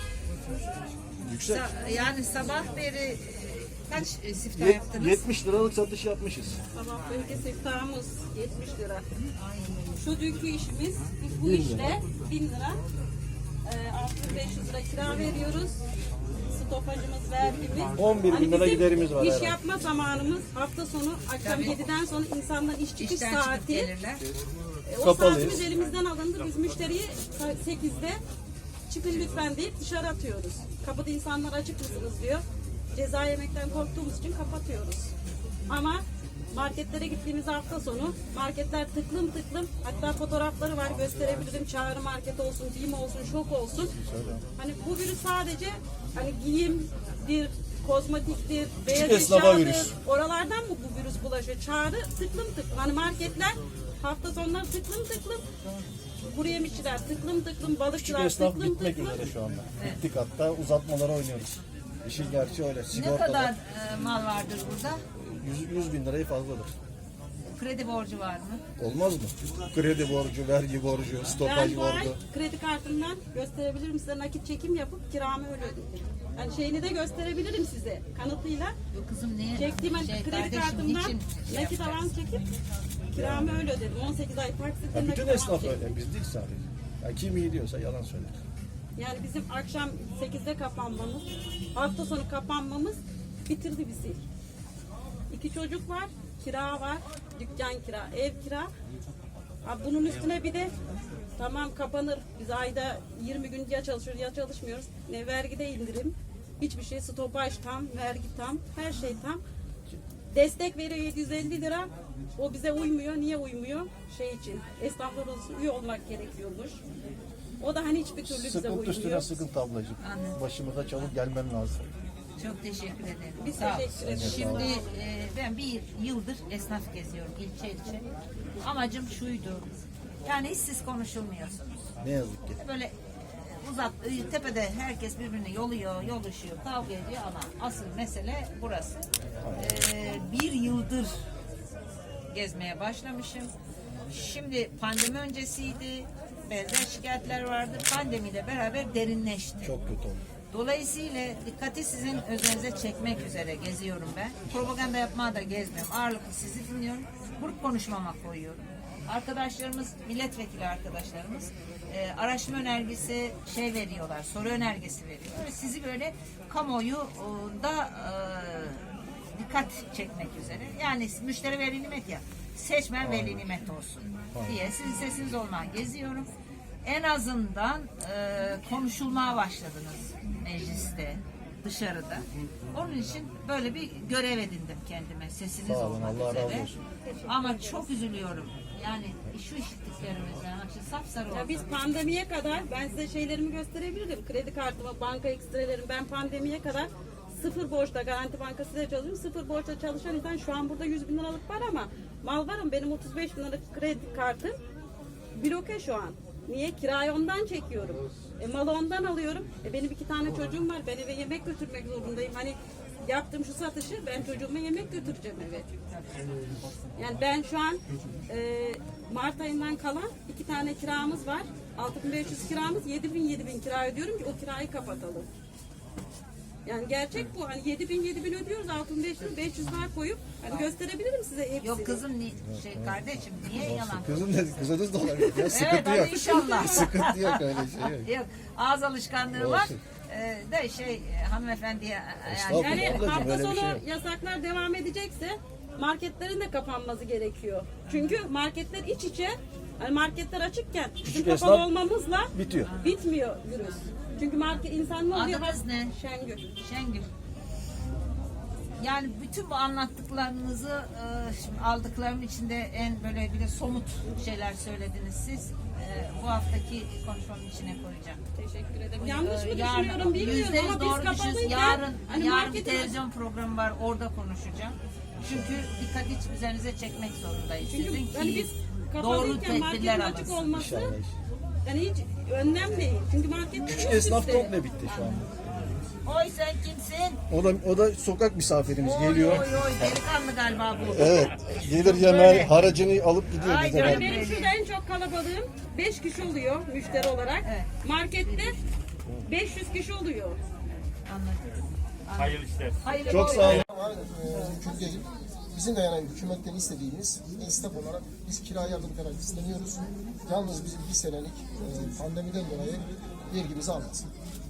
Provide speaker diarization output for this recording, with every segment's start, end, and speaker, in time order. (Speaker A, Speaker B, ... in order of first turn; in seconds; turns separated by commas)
Speaker A: 1.1-1.7, Speaker B: 1.4-5.2, Speaker A: 4.5-6.6, Speaker C: 6.7-9.1, Speaker B: 7.0-7.4, Speaker B: 9.3-9.9, Speaker C: 9.9-12.8, Speaker A: 11.4-12.0, Speaker C: 13.6-15.8, Speaker C: 16.4-23.9, Speaker A: 17.9-19.6, Speaker B: 21.4-21.8, Speaker B: 23.0-24.2, Speaker C: 24.9-28.2, Speaker A: 25.0-25.6, Speaker C: 28.9-35.1, Speaker C: 35.7-43.9, Speaker A: 43.9-44.4, Speaker C: 44.5-55.5, Speaker A: 48.9-49.9, Speaker C: 56.2-59.3, Speaker A: 58.0-63.5, Speaker B: 62.9-65.0, Speaker A: 65.1-66.7, Speaker B: 67.5-68.6, Speaker A: 68.8-72.2, Speaker C: 71.4-78.7, Speaker B: 78.9-82.1, Speaker C: 79.5-82.5, Speaker C: 83.1-85.8, Speaker A: 83.1-83.6, Speaker A: 84.9-88.4, Speaker C: 89.0-94.2, Speaker C: 95.3-98.7, Speaker C: 99.6-100.7, Speaker C: 101.4-109.4, Speaker C: 110.3-116.8, Speaker C: 117.6-119.3, Speaker A: 118.2-121.9, Speaker B: 120.0-120.4, Speaker B: 122.4-128.1, Speaker C: 123.4-124.9, Speaker A: 124.0-124.7, Speaker B: 128.6-129.7, Speaker B: 130.2-131.9, Speaker A: 132.0-132.6, Speaker B: 132.6-141.2, Speaker A: 139.4-139.8, Speaker B: 142.3-143.5, Speaker B: 144.1-149.7, Speaker A: 149.6-150.2, Speaker B: 150.5-176.3, Speaker A: 173.0-173.5, Speaker B: 176.8-191.8, Speaker A: 185.6-186.8, Speaker C: 187.0-187.9, Speaker C: 191.3-204.6, Speaker C: 205.3-215.7, Speaker B: 215.9-216.5, Speaker C: 216.9-225.3, Speaker C: 226.6-232.0, Speaker B: 231.6-243.2, Speaker A: 232.4-232.9, Speaker A: 233.6-238.1, Speaker C: 235.8-237.0, Speaker A: 239.3-239.7, Speaker A: 242.3-243.8, Speaker C: 242.5-256.5, Speaker B: 247.8-248.2, Speaker A: 251.0-251.7, Speaker A: 252.3-252.7, Speaker B: 252.6-253.0, Speaker B: 255.1-255.9, Speaker B: 256.6-257.1, Speaker B: 258.8-268.2, Speaker C: 268.3-272.9, Speaker B: 269.0-280.4, Speaker A: 275.2-275.5, Speaker C: 277.6-280.9, Speaker A: 280.4-281.1, Speaker C: 281.6-284.5, Speaker A: 283.6-285.8, Speaker B: 284.8-285.3, Speaker B: 286.0-287.2, Speaker A: 287.3-289.5, Speaker B: 288.8-292.5, Speaker A: 290.9-294.2, Speaker B: 293.3-294.5, Speaker C: 293.7-298.6, Speaker B: 297.3-297.7, Speaker B: 298.2-298.6, Speaker C: 299.2-300.4, Speaker B: 300.9-303.6, Speaker A: 303.0-303.6, Speaker D: 303.4-314.1